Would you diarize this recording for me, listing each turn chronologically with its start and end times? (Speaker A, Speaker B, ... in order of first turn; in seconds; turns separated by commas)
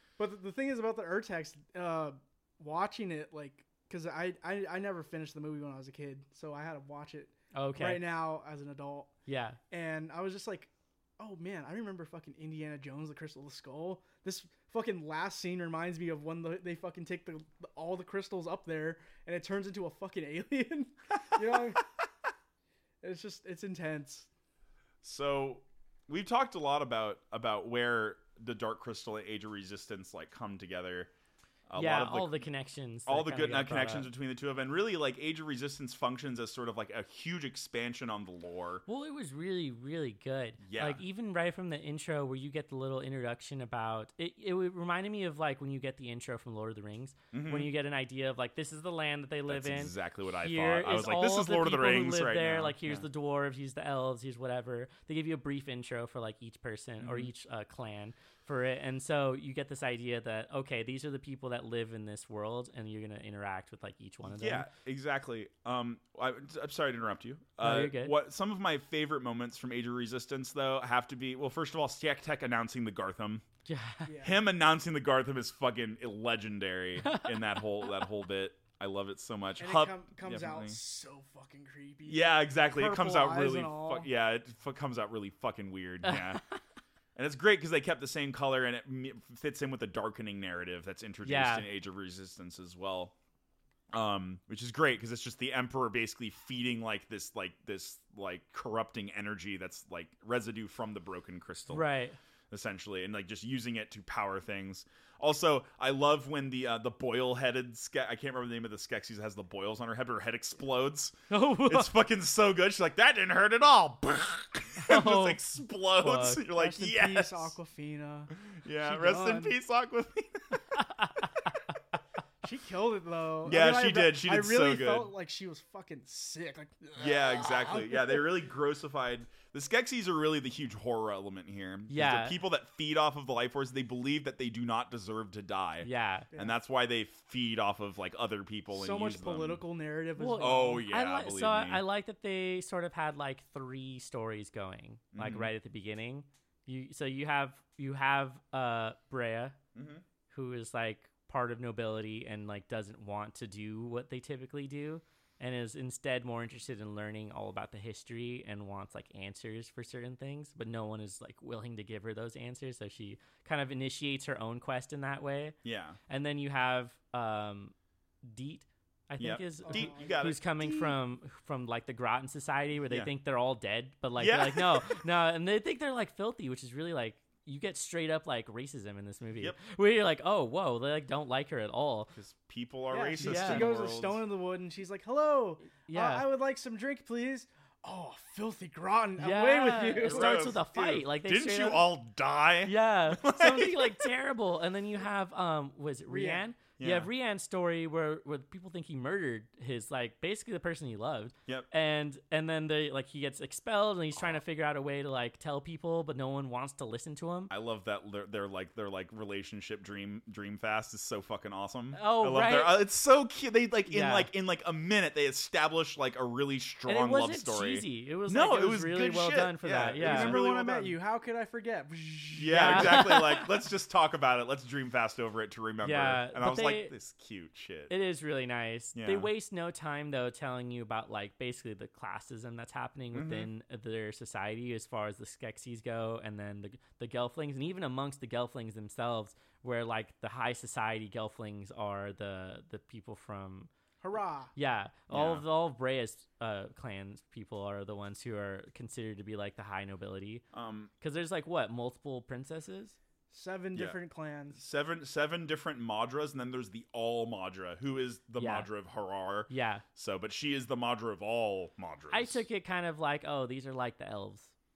Speaker A: 0.2-9.1, Speaker B: 7.5-8.0, Speaker B: 9.3-9.6, Speaker A: 9.7-21.9, Speaker A: 23.0-24.3, Speaker C: 25.0-31.1, Speaker C: 31.7-32.5, Speaker B: 31.8-34.1, Speaker C: 33.1-38.8, Speaker B: 38.9-64.7, Speaker C: 40.6-41.0, Speaker C: 47.3-47.7, Speaker C: 49.5-53.0, Speaker C: 57.0-57.3, Speaker C: 64.2-73.5, Speaker B: 67.6-68.1, Speaker B: 73.7-74.1, Speaker A: 74.0-74.4, Speaker C: 74.2-80.8, Speaker B: 77.0-77.4, Speaker A: 79.6-84.1, Speaker C: 82.0-86.4, Speaker B: 86.0-86.6, Speaker C: 87.1-93.1, Speaker B: 91.2-91.7, Speaker C: 93.9-101.8, Speaker B: 101.7-102.2, Speaker C: 102.5-117.5, Speaker B: 111.3-111.9, Speaker B: 114.8-115.4, Speaker B: 116.0-116.4, Speaker A: 116.5-119.5, Speaker C: 118.5-120.6, Speaker B: 120.7-121.5, Speaker A: 122.4-128.3, Speaker C: 123.4-125.1, Speaker C: 127.0-139.6, Speaker B: 131.9-132.4, Speaker B: 135.8-136.3, Speaker A: 138.7-140.8, Speaker B: 140.2-149.6, Speaker C: 140.4-141.8, Speaker C: 145.1-145.5, Speaker C: 149.7-150.0, Speaker B: 150.3-165.6, Speaker C: 165.6-166.0, Speaker B: 166.1-182.1, Speaker C: 169.2-170.9, Speaker A: 169.6-170.2, Speaker C: 174.2-175.0, Speaker C: 182.1-184.2, Speaker A: 182.9-190.5, Speaker B: 183.2-183.7, Speaker B: 185.8-186.2, Speaker B: 189.2-191.9, Speaker C: 190.0-194.1, Speaker B: 192.6-207.5, Speaker A: 196.1-196.4, Speaker C: 196.8-197.1, Speaker C: 207.5-220.9, Speaker B: 211.9-212.8, Speaker B: 213.9-214.3, Speaker B: 216.8-220.4, Speaker A: 220.0-223.2, Speaker C: 222.3-227.9, Speaker B: 222.5-223.5, Speaker B: 225.8-226.9, Speaker B: 227.9-243.7, Speaker C: 228.9-229.3, Speaker C: 233.1-233.5, Speaker A: 244.0-244.5, Speaker B: 244.5-250.4, Speaker C: 245.1-245.4, Speaker C: 250.5-250.9, Speaker B: 251.0-253.0, Speaker A: 253.3-254.6, Speaker C: 254.5-262.4, Speaker B: 258.4-258.7, Speaker B: 259.5-259.8, Speaker B: 262.1-264.5